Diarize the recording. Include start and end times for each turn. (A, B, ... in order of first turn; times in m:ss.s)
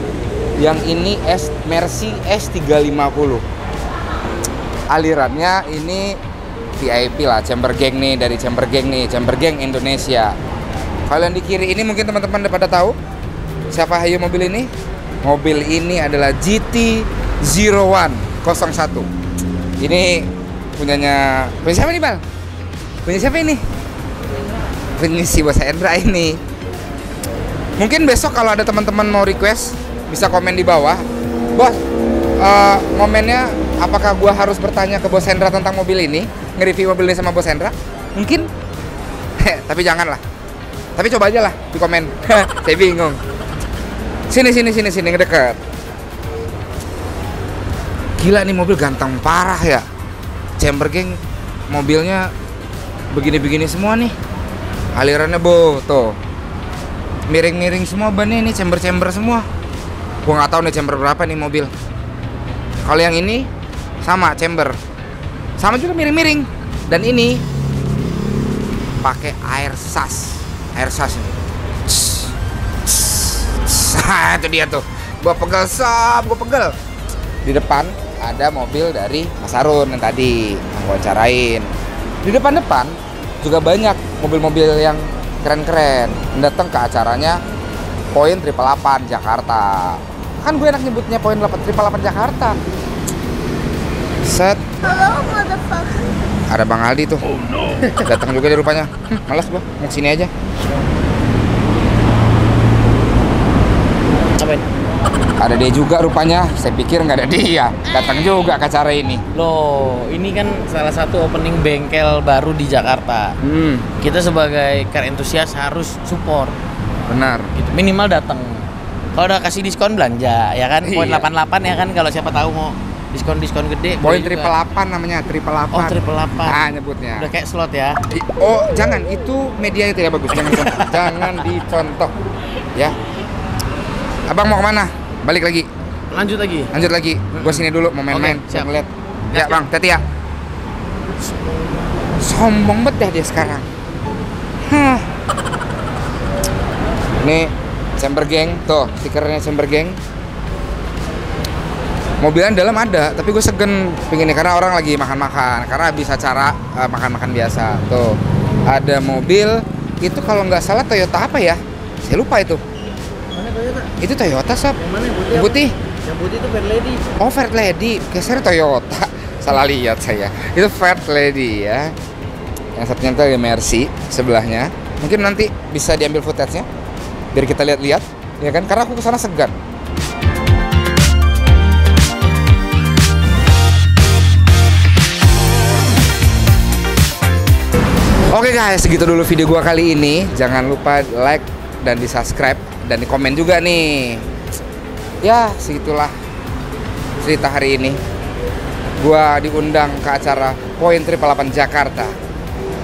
0:00.6-0:03.4 A
0:04.9-0:06.2 A
0:06.8-0:10.3 A
0:11.1-0:13.0 A
0:13.7-0:14.7 A
0:15.2-0:19.1 A
0:19.8-0:22.2 A
0:23.0-0:23.6 A
0:25.0-0:26.4 A
0:27.8-0:31.8 A
0:32.4-0:38.5 A
0:39.4-0:40.2 A
0:41.0-0:43.2 A
0:44.3-0:45.6 A
0:48.2-0:49.8 A
0:50.6-0:52.3 A
0:53.1-0:54.2 A
0:55.0-0:56.2 A
0:57.3-0:59.5 A
1:00.2-1:01.7 A
1:02.8-1:03.5 A
1:04.0-1:04.8 A
1:05.6-1:07.4 A
1:09.0-1:11.4 A
1:11.9-1:12.3 A
1:12.9-1:16.7 A
1:17.4-1:21.7 A
1:22.2-1:27.4 A
1:28.1-1:32.6 A
1:34.2-1:34.6 A
1:34.9-1:36.0 B
1:36.5-1:37.2 A
1:38.0-1:40.3 A
1:44.4-1:44.6 B
1:45.4-1:49.2 A
1:49.3-1:53.4 B
1:53.4-1:53.9 A
1:54.0-1:56.6 B
1:57.1-1:57.5 A
1:57.6-2:04.5 B
2:00.8-2:01.3 A
2:04.0-2:07.3 A
2:05.7-2:06.6 B
2:07.2-2:08.0 B
2:08.1-2:12.1 A
2:10.4-2:11.4 B
2:14.3-2:15.7 A
2:16.1-2:16.7 B
2:16.7-2:20.0 A
2:17.3-2:18.7 B
2:19.3-2:19.6 B
2:22.2-2:23.7 A
2:24.7-2:25.1 A
2:27.2-2:30.0 A
2:32.2-2:38.1 A
2:38.7-2:42.6 A
2:44.0-2:45.8 A
2:46.2-2:47.0 B
2:47.2-2:51.9 A
2:52.8-2:56.7 A
2:57.3-2:59.6 A
3:08.3-3:14.2 A
3:15.2-3:16.1 A
3:17.2-3:18.0 A
3:19.0-3:22.2 A